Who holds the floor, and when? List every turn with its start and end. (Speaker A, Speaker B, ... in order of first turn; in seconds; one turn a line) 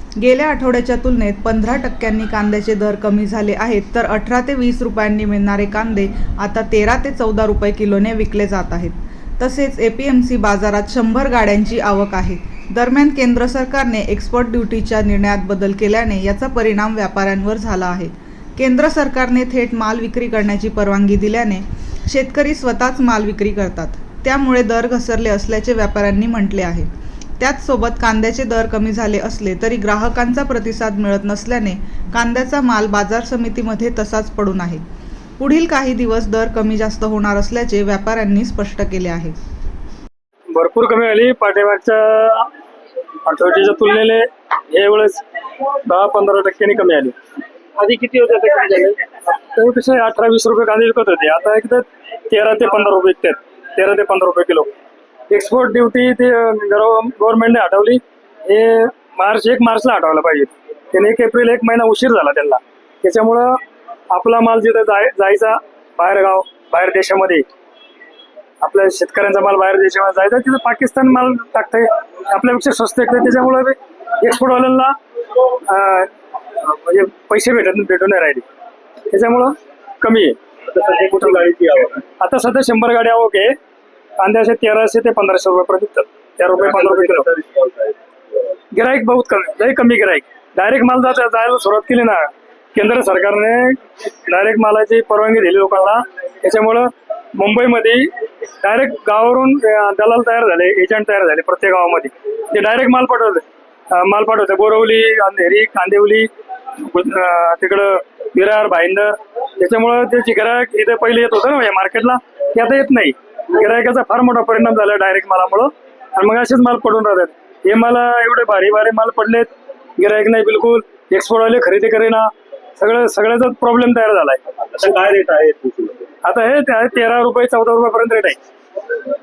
Speaker A: 0.2-34.8
Speaker A: 35.4-39.4
Speaker B: 40.5-42.5
Speaker B: 43.2-45.2
Speaker B: 45.8-47.1
Speaker B: 47.8-54.7
Speaker B: 55.3-67.5
Speaker B: 68.6-78.4
Speaker B: 79.1-80.4
Speaker C: 80.7-82.0
Speaker B: 81.2-81.4
Speaker B: 82.2-83.5
Speaker B: 84.2-87.3
Speaker C: 86.6-88.0
Speaker B: 88.7-124.4
Speaker C: 124.6-126.1
Speaker B: 126.2-128.4